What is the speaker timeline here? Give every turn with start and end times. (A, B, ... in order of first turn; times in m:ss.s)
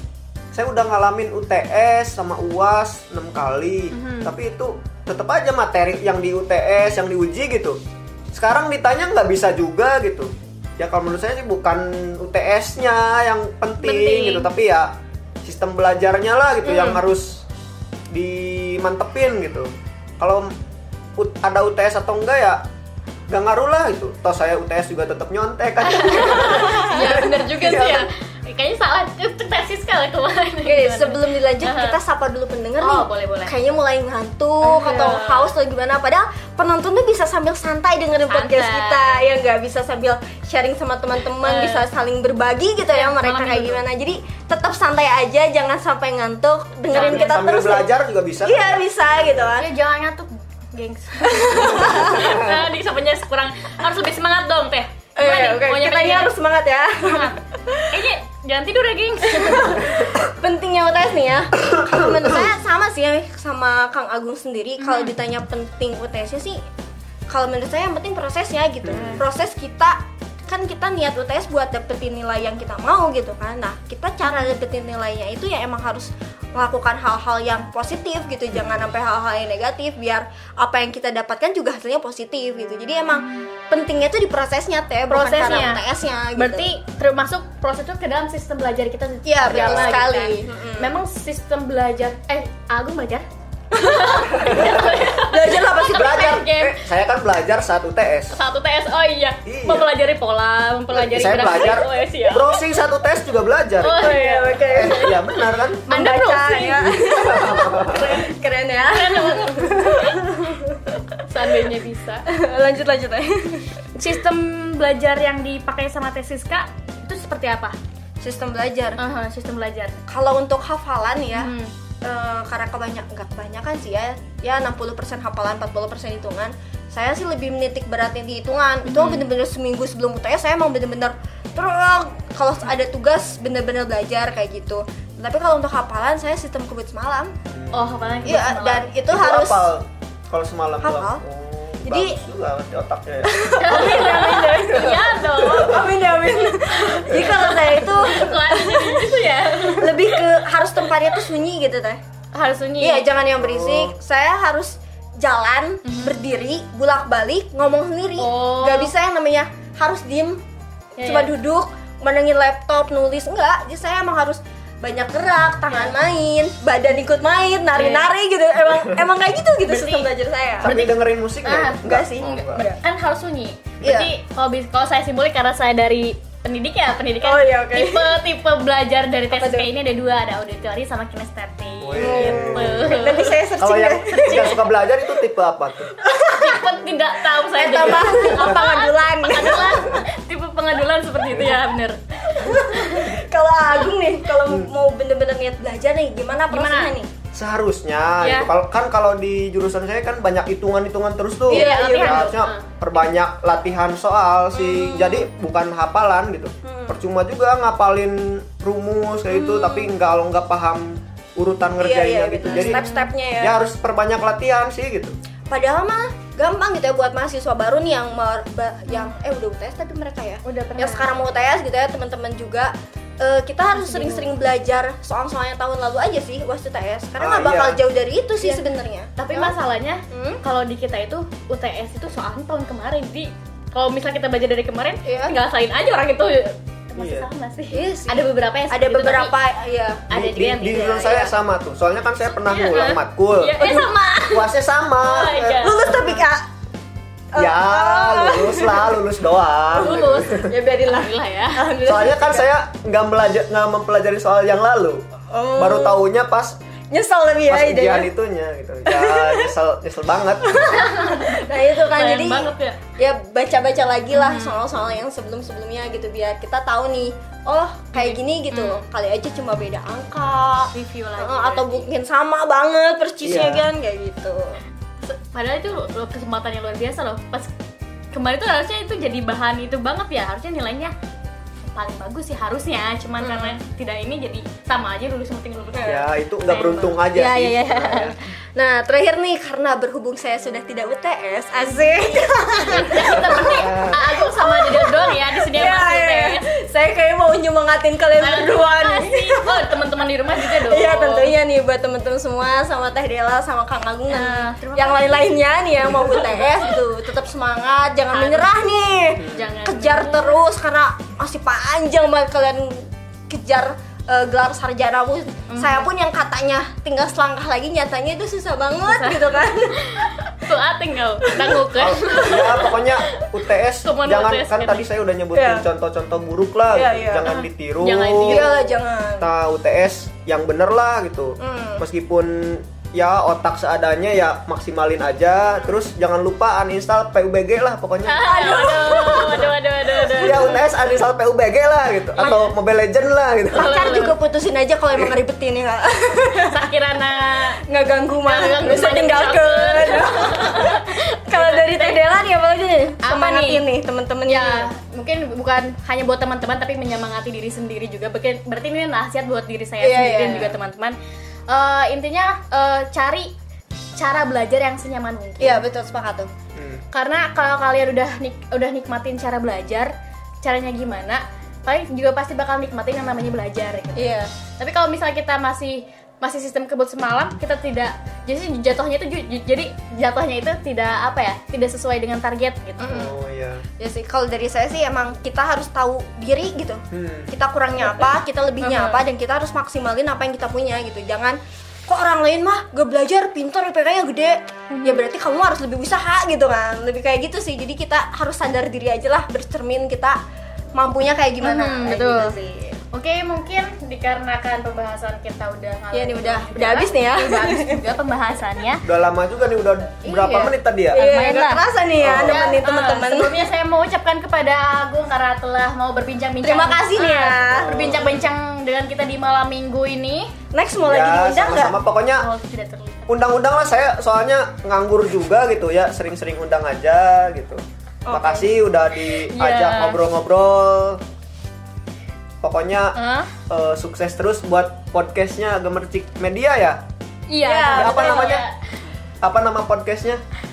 0:00.5-0:07.8 A
0:03.9-0:04.3 B
0:08.3-0:17.5 A
0:13.8-0:14.5 B
0:18.1-0:20.5 A
0:21.2-0:22.7 A
0:23.3-0:28.1 A
0:25.8-0:32.0 B
0:26.6-0:27.0 C
0:30.6-0:47.9 C
0:32.8-0:33.6 B
0:34.6-0:35.5 B
0:38.3-0:39.2 B
0:41.4-0:41.9 B
0:42.9-0:43.8 B
0:46.9-0:47.4 B
0:46.9-0:49.5 A
0:48.4-0:49.7 C
0:49.6-0:56.3 B
0:51.2-0:52.3 C
0:52.2-0:52.5 A
0:55.2-0:58.0 C
0:57.0-1:00.1 B
0:59.3-1:06.6 C
1:01.6-1:02.4 A
1:04.8-1:05.1 B
1:07.3-1:26.7 C
1:08.8-1:09.2 A
1:23.1-1:23.5 B
1:25.1-1:25.8 B
1:26.4-1:36.8 B
1:29.3-1:31.0 C
1:29.5-1:30.0 A
1:33.7-1:36.3 C
1:34.4-1:34.9 A
1:35.9-1:38.4 A
1:38.3-1:42.6 B
1:39.4-1:39.9 A
1:40.9-1:44.1 A
1:43.8-1:45.2 B
1:44.0-1:45.2 C
1:44.6-1:45.9 A
1:45.9-1:50.9 C
1:45.9-1:48.3 B
1:47.0-1:48.2 A
1:48.9-1:50.3 B
1:51.2-1:52.3 B
1:52.3-1:53.7 C
1:54.0-1:57.8 B
1:58.2-1:59.0 C
1:59.0-2:00.0 B
2:00.1-2:01.5 C
2:01.4-2:01.7 B
2:02.0-2:17.4 C
2:08.9-2:09.3 B
2:17.5-2:18.4 A
2:17.7-2:18.9 B
2:18.2-2:19.7 C
2:19.1-2:25.0 A
2:20.8-2:21.2 C
2:21.8-2:22.2 C
2:23.2-2:32.0 C
2:23.6-2:25.9 B
2:26.7-2:30.3 B
2:32.3-2:33.1 B
2:32.8-2:40.4 C
2:33.4-2:33.9 A
2:35.8-2:36.2 B
2:38.2-2:38.9 B
2:41.0-2:41.3 B
2:41.0-2:50.7 C
2:47.8-2:48.1 B
2:49.6-2:50.1 B
2:50.6-2:52.6 A
2:50.6-3:03.4 B
2:51.8-2:52.8 C
2:53.8-2:54.1 C
2:57.2-2:58.2 C
2:59.3-2:59.7 C
3:01.8-3:03.0 A
3:02.0-3:04.6 C
3:03.6-3:05.9 A
3:04.1-3:04.6 B
3:06.0-3:06.7 C
3:06.2-3:13.1 B
3:07.4-3:10.0 C
3:12.3-3:17.1 C
3:16.5-3:16.9 B
3:17.3-3:32.8 A
3:18.2-3:18.5 B
3:21.5-3:22.4 C
3:21.5-3:22.7 B
3:24.6-3:25.2 B
3:26.6-3:27.0 C
3:29.4-3:29.8 B
3:31.8-3:33.6 C
3:32.5-3:33.1 B
3:33.4-3:35.2 A
3:35.5-3:49.6 C
3:40.4-3:41.1 B
3:43.7-3:44.4 B
3:47.2-3:47.8 A
3:49.2-3:59.3 B
3:50.1-3:50.4 C
3:55.0-3:55.4 C
3:57.0-3:57.3 A
3:57.7-4:00.1 C
4:00.1-4:01.3 B
4:00.1-4:03.6 A
4:02.5-4:04.5 B
4:03.6-4:03.9 C
4:04.3-4:06.2 A
4:05.0-4:05.9 B
4:05.6-4:06.5 C
4:07.3-4:09.0 C
4:07.4-4:10.5 A
4:09.8-4:12.5 C
4:09.8-4:11.7 B
4:11.8-4:15.0 A
4:15.3-4:16.0 C
4:15.6-4:16.6 A
4:16.9-4:18.1 C
4:17.5-4:20.7 A
4:18.9-4:19.5 C
4:20.5-4:34.6 C
4:20.7-4:22.8 B
4:24.1-4:24.6 B
4:28.0-4:28.8 B
4:30.7-4:31.9 B
4:33.2-4:33.7 A
4:35.0-4:37.5 B
4:38.1-4:40.9 B
4:41.7-4:47.4 B
4:43.2-4:43.6 C
4:45.7-4:46.0 C
4:45.8-4:48.2 A
4:47.2-4:59.7 C
4:51.6-4:56.4 B
4:53.1-4:54.0 A
4:58.2-5:01.4 B
5:00.4-5:20.1 C
5:04.1-5:06.7 B
5:08.1-5:08.5 B
5:09.2-5:09.5 A
5:09.2-5:10.4 B
5:15.5-5:15.9 B
5:18.8-5:23.3 B
5:21.3-5:22.6 C
5:21.7-5:28.4 A
5:23.8-5:24.9 B
5:25.3-5:25.6 C
5:26.7-5:27.3 C
5:27.3-5:28.7 B
5:28.2-5:29.3 C
5:29.2-5:38.7 A
5:31.4-5:31.8 C
5:38.1-5:40.6 B
5:38.4-5:39.5 C
5:40.1-5:43.7 A
5:42.2-5:42.5 C
5:43.6-5:46.7 C
5:43.6-5:44.2 B
5:46.4-5:47.6 B
5:47.7-5:54.7 C
5:48.2-5:52.0 B
5:53.0-5:53.6 B
5:54.3-6:01.0 B
5:59.8-6:00.6 C
6:01.5-6:03.3 B
6:04.0-6:05.6 B
6:05.4-6:06.3 C
6:06.6-6:06.8 A
6:06.9-6:23.1 B
6:14.0-6:14.3 C
6:22.8-6:23.1 C
6:22.9-6:23.6 A
6:23.8-6:40.2 C
6:26.9-6:27.3 A
6:28.6-6:29.0 B
6:34.7-6:35.0 B
6:40.7-6:42.8 C
6:41.4-6:42.4 B
6:42.9-6:48.8 B
6:45.9-6:47.8 C
6:48.8-6:51.0 A
6:50.0-7:00.3 B
6:50.9-6:53.4 C
6:52.0-6:52.5 A
6:56.4-6:58.0 C
6:57.5-6:58.2 A
7:00.5-7:01.8 C
7:00.8-7:02.3 A
7:02.2-7:03.2 B
7:03.1-7:11.0 A
7:08.1-7:08.6 C
7:09.3-7:10.0 B
7:12.4-7:13.0 A
7:13.0-7:13.3 B
7:13.5-7:16.8 A
7:17.3-7:18.5 B
7:17.4-7:18.4 C
7:17.7-7:18.5 A
7:19.2-7:20.2 A